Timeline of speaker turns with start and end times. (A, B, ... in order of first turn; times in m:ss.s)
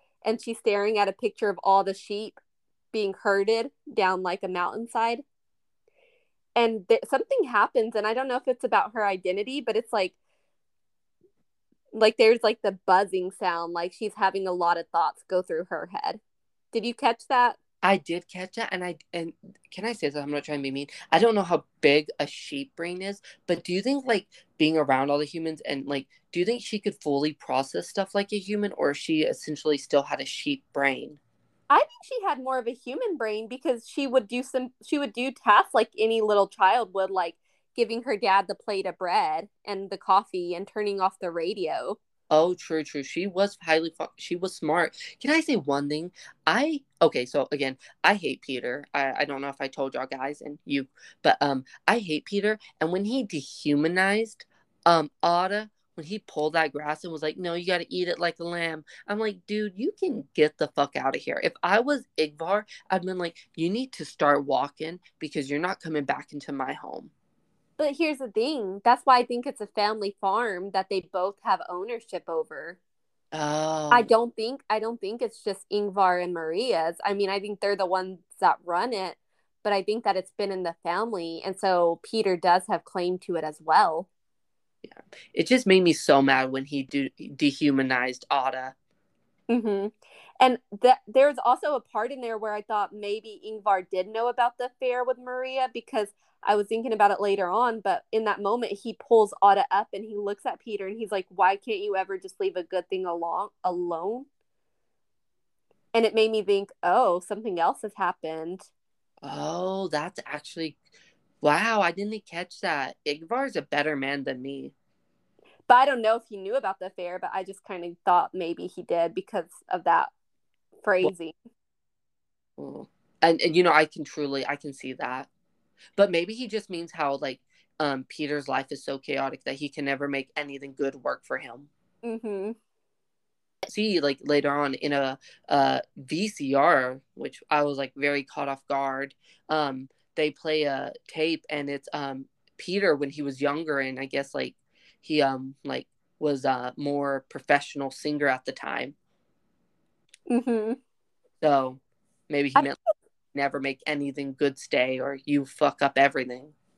0:00.2-0:02.4 A
0:02.9-0:05.2 A
0:06.6-0:10.2 A
0:12.0-0:16.2 A
0:16.7-0:17.6 A
0:17.8-0:31.2 B
0:31.7-0:42.0 A
0:42.3-1:07.1 B
1:07.8-1:12.8 A
1:13.3-1:14.1 B
1:13.9-1:24.1 A
1:24.8-1:28.8 B
1:29.5-1:44.3 A
1:45.9-1:48.6 A
1:49.2-1:50.8 B
1:51.4-1:54.7 B
1:55.7-2:00.1 A
2:00.8-2:01.4 A
2:02.6-2:05.3 B
2:06.0-2:11.7 B
2:12.0-2:12.6 A
2:13.7-2:28.9 B
2:30.3-2:30.8 A
2:31.4-2:32.8 B
2:33.3-2:36.5 B